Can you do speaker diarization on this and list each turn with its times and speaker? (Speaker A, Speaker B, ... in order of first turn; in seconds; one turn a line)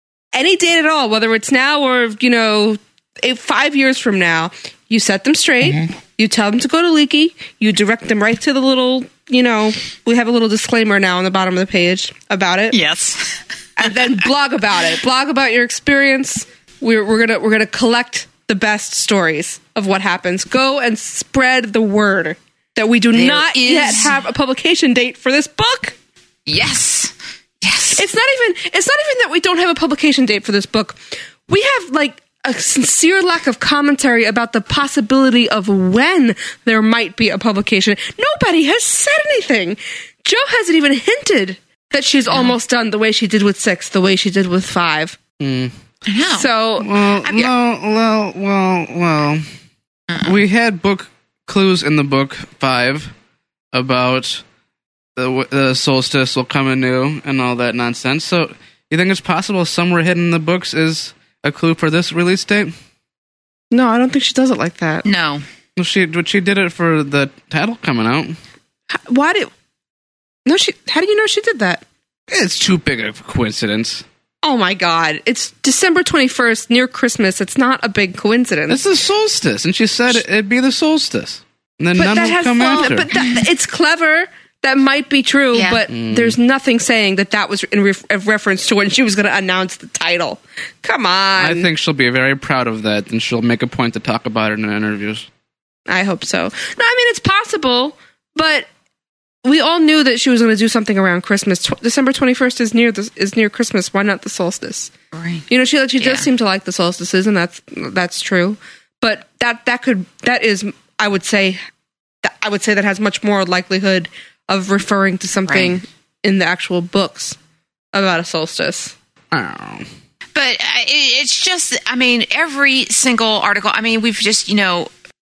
Speaker A: 0.3-12.8
Speaker B: 12.7-14.0
Speaker A: 13.8-26.0
Speaker B: 23.1-24.2
Speaker B: 26.5-28.1
Speaker A: 28.0-45.2
Speaker B: 42.3-42.5
Speaker C: 45.4-45.7
Speaker B: 46.1-46.5
Speaker A: 46.3-46.9
Speaker C: 46.8-49.4
Speaker B: 47.2-47.5
Speaker B: 50.1-50.4
Speaker C: 50.2-53.1
Speaker C: 53.7-54.4
Speaker C: 55.2-62.8
Speaker A: 63.7-65.0
Speaker B: 65.0-65.4
Speaker C: 65.8-68.4
Speaker A: 68.9-69.5
Speaker A: 70.5-71.8
Speaker C: 72.3-74.0
Speaker A: 74.4-78.8
Speaker C: 78.7-83.1
Speaker A: 82.0-91.7
Speaker B: 85.5-85.8
Speaker C: 85.9-86.4
Speaker C: 91.4-95.3
Speaker A: 95.9-98.7
Speaker A: 99.4-104.9
Speaker B: 105.1-105.5
Speaker A: 105.5-111.6
Speaker B: 106.0-106.3
Speaker A: 112.2-117.4
Speaker B: 115.5-115.8
Speaker A: 117.9-118.9
Speaker C: 119.3-119.9
Speaker B: 120.3-124.9